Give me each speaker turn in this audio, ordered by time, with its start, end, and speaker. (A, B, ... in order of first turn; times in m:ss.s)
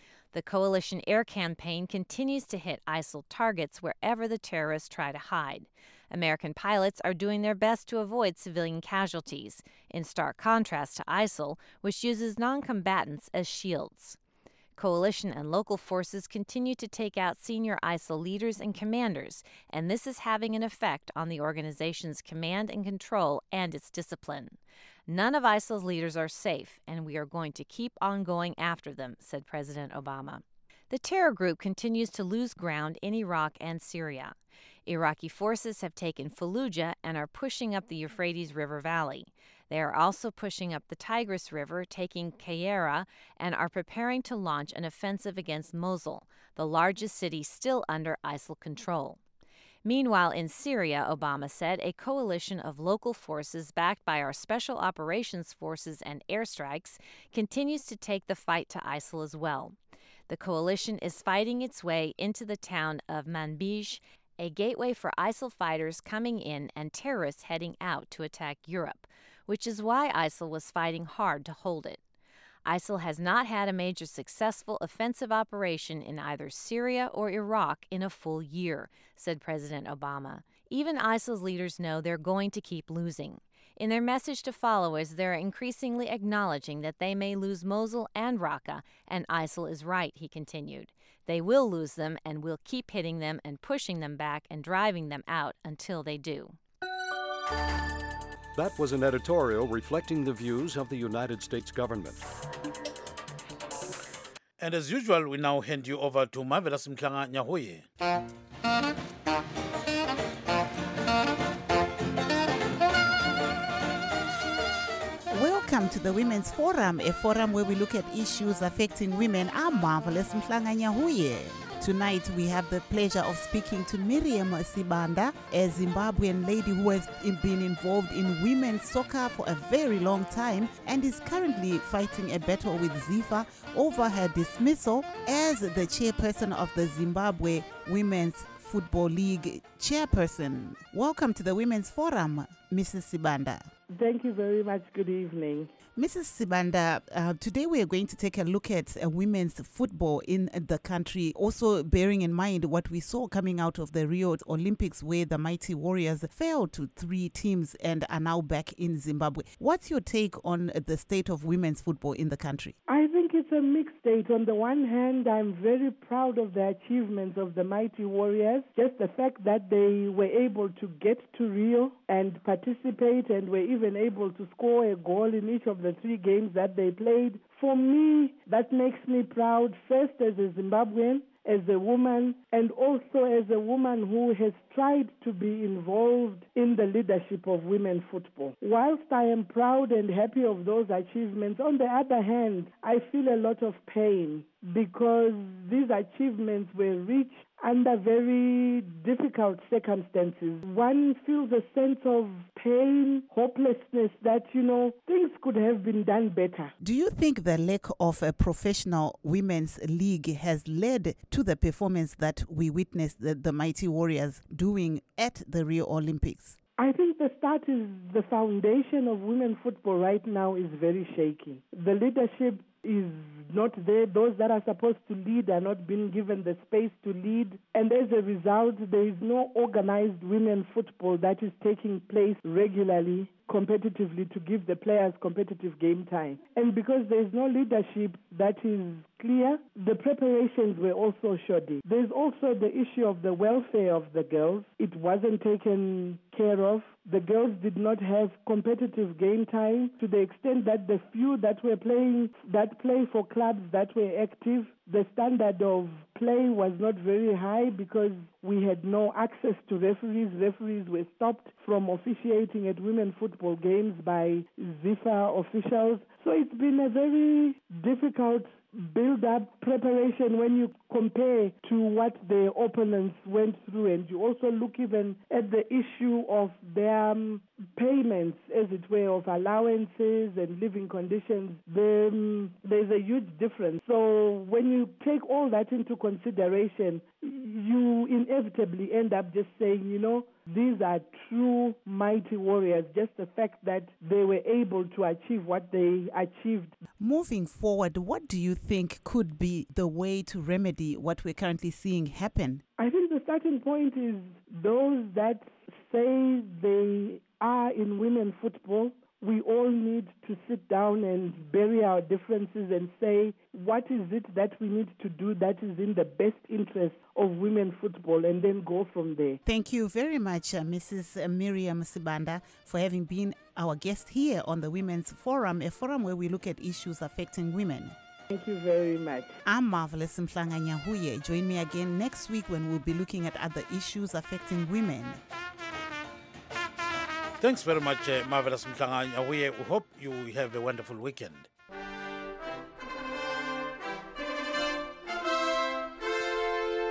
0:00.3-0:14.2 A
0:14.8-0:24.6 A
0:25.1-0:34.4 A
0:34.9-0:49.2 A
0:49.8-0:59.8 A
1:00.3-1:12.0 A
1:12.7-1:36.6 A
1:38.6-1:42.2 B
1:44.6-1:47.8 C
1:55.3-2:23.7 D
2:23.9-2:25.7 E
2:26.0-2:42.8 D
2:42.9-3:26.7 E
3:26.8-3:36.6 D
3:36.8-4:56.8 E
4:57.0-5:02.6 D
5:02.8-5:19.4 E
5:19.5-5:28.0 D
5:28.3-5:29.4 E
5:29.5-5:35.2 D
5:37.4-5:41.5 C